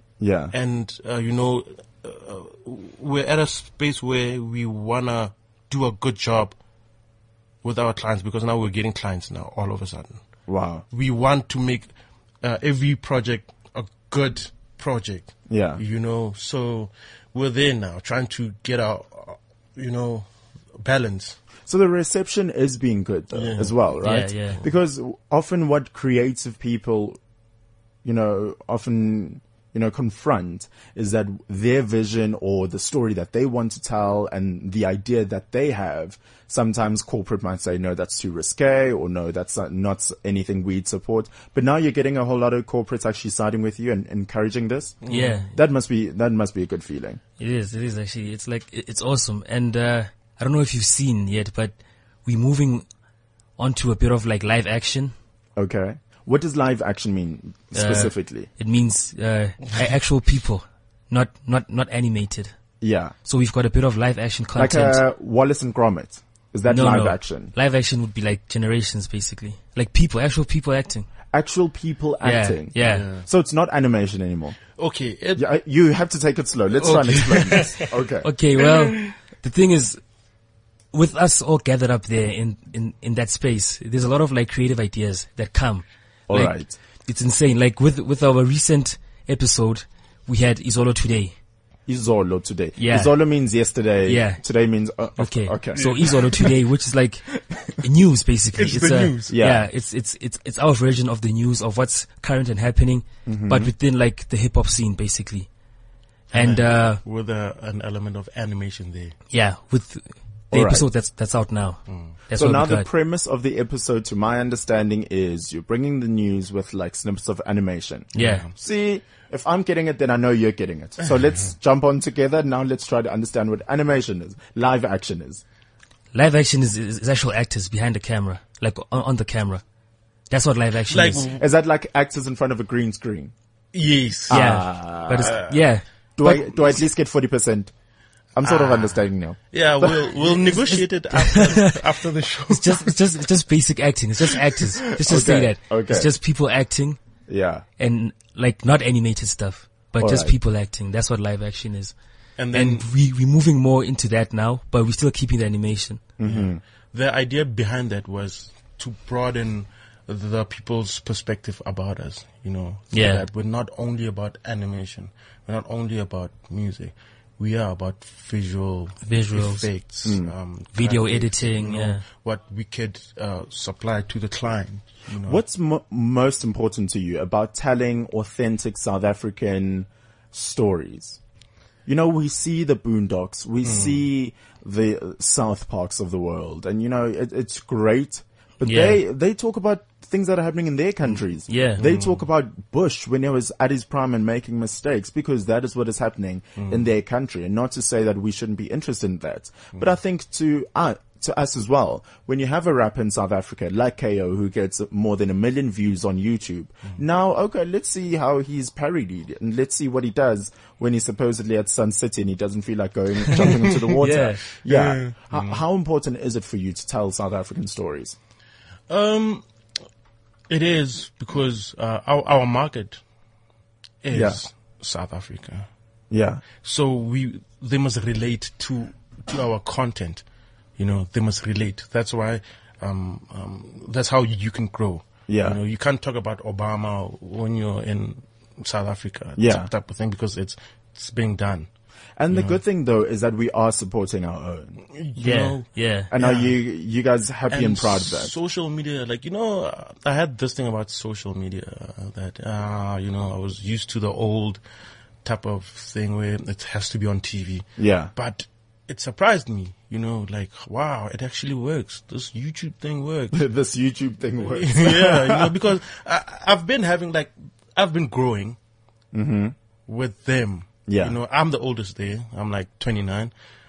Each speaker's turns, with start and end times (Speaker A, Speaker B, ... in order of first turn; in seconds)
Speaker A: 0.2-0.5, 10.5-10.8, 15.5-15.8, 21.6-27.2, 28.0-45.0, 45.5-47.2, 55.6-58.5, 62.8-63.1, 64.5-67.5, 71.3-74.6, 75.3-78.3, 86.3-86.8, 91.9-96.5, 97.5-97.8, 99.3-99.7, 103.2-103.7, 110.5-110.8, 112.3-125.4, 131.4-133.3, 134.3-135.4, 136.2-137.7, 138.3-140.6, 144.9-146.1, 147.3-147.6, 150.0-150.3, 156.2-156.6, 170.1-170.3, 175.2-181.2, 181.8-218.2, 224.1-224.4, 226.1-226.4, 235.3-235.6, 239.4-239.7, 242.2-244.8, 246.1-248.3, 257.8-258.1, 263.3-265.5, 269.1-269.5, 270.9-271.1
Speaker B: 0.5-6.5, 7.6-10.2, 10.9-11.9, 12.4-21.4, 23.3-23.8, 45.0-45.5, 72.8-73.2, 74.8-75.5, 76.8-77.9, 78.6-79.1, 95.7-96.2, 98.5-99.3, 106.3-109.2, 111.9-112.1, 118.1-118.5, 121.0-121.5, 130.9-131.4, 133.7-134.4, 135.2-135.6, 138.4-142.9, 152.4-152.9, 156.2-175.4, 183.6-184.0, 191.8-192.2, 196.6-196.8, 213.4-213.9, 214.5-215.6, 218.9-219.4, 220.5-223.0, 224.0-225.7, 226.6-230.2, 230.8-241.7, 242.3-242.6, 244.9-246.6, 247.5-254.6, 255.2-263.4, 264.4-268.6, 269.9-273.3
Speaker C: 24.0-24.6, 45.1-45.5, 47.4-52.9, 53.6-55.1, 57.7-62.5, 63.2-65.0, 66.7-71.1, 72.2-73.1, 78.2-80.0, 80.9-91.3, 92.8-93.2, 94.0-94.4, 95.2-97.2, 97.8-105.5, 106.3-107.0, 109.3-112.9, 118.1-118.5, 126.1-129.6, 130.3-131.3, 134.3-136.4, 141.1-141.8, 142.5-147.0, 147.8-151.9, 152.5-156.0, 162.9-163.2, 169.0-169.7, 170.7-172.0, 188.6-189.0, 191.5-191.8, 214.0-214.4, 245.2-246.1